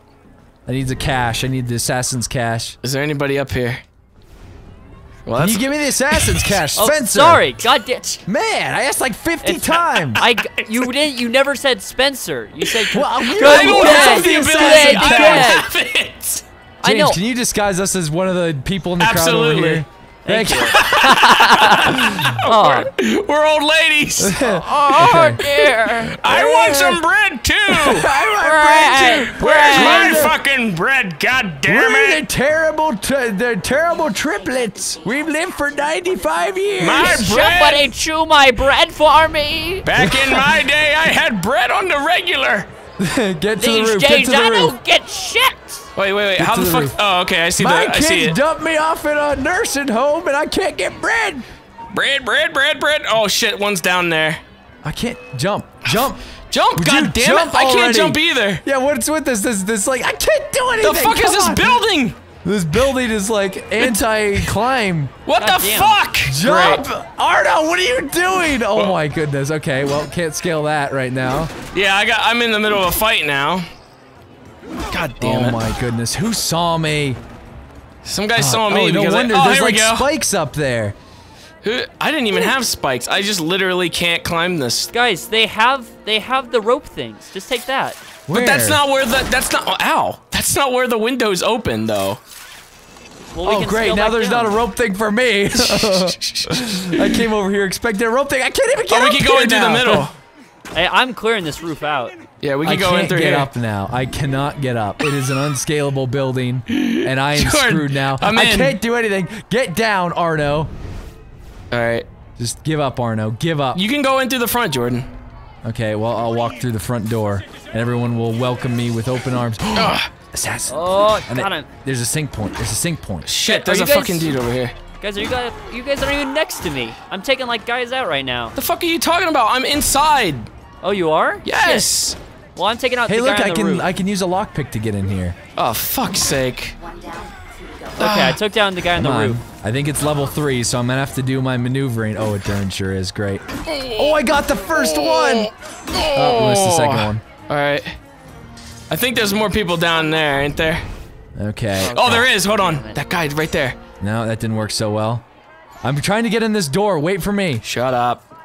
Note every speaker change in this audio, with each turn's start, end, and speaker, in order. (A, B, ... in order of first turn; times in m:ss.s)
0:00.7-0:02.8 A
0:02.8-0:03.8 B
0:05.2-0:06.6 B
0:05.4-0:07.4 A
0:06.8-0:08.2 C
0:08.3-0:10.2 A
0:09.4-0:15.7 C
0:10.1-0:10.9 B
0:12.6-0:16.4 B
0:12.9-0:15.6 A
0:16.8-0:17.2 C
0:16.8-0:20.8 A
0:19.0-0:19.8 B
0:20.2-0:22.9 C
0:20.7-0:28.2 B
0:24.2-0:25.4 A
0:24.5-0:26.2 C
0:26.2-0:27.0 A
0:27.7-0:30.4 A
0:28.3-0:30.3 C
0:29.0-0:32.2 B
0:31.7-0:37.4 A
0:36.8-0:37.9 B
0:36.9-0:39.9 C
0:39.8-0:42.7 B
0:40.0-0:40.6 A
0:43.0-0:44.8 A
0:43.6-0:45.9 C
0:46.0-0:48.4 B
0:46.4-0:47.0 A
0:47.6-0:51.4 A
0:51.9-0:54.4 B
0:54.8-0:56.2 A
0:56.5-0:58.6 B
0:56.8-1:01.8 A
1:00.8-1:02.2 B
1:02.4-1:05.2 A
1:05.2-1:06.8 B
1:05.4-1:06.0 C
1:06.2-1:11.5 A
1:08.7-1:09.0 B
1:11.7-1:13.7 B
1:14.9-1:15.6 B
1:15.2-1:17.2 A
1:18.0-1:20.1 B
1:18.4-1:21.0 A
1:21.6-1:24.9 B
1:24.9-1:28.0 C
1:28.3-1:28.8 A
1:28.3-1:32.2 B
1:33.3-1:34.6 C
1:33.4-1:40.1 A
1:35.6-1:37.2 B
1:38.9-1:40.1 B
1:40.7-1:42.2 C
1:42.4-1:43.5 B
1:42.6-1:50.7 A
1:46.7-1:48.8 B
1:51.7-1:52.1 B
1:52.4-1:53.8 A
1:53.7-1:55.1 B
1:55.6-2:03.3 A
1:59.7-2:00.1 B
2:00.7-2:01.7 C
2:03.2-2:04.8 B
2:03.4-2:04.4 C
2:05.0-2:08.6 C
2:08.6-2:10.5 B
2:10.8-2:11.9 C
2:11.4-2:12.2 B
2:12.6-2:13.9 C
2:13.1-2:15.4 A
2:15.6-2:16.8 B
2:18.0-2:19.4 C
2:18.0-2:18.4 B
2:19.0-2:25.5 A
2:23.7-2:24.2 B
2:25.0-2:28.0 B
2:26.1-2:27.2 A
2:28.9-2:30.9 B
2:31.4-2:32.3 A
2:31.8-2:33.0 C
2:31.9-2:33.8 B
2:34.0-2:35.2 A
2:35.8-2:37.6 A
2:37.6-2:38.2 B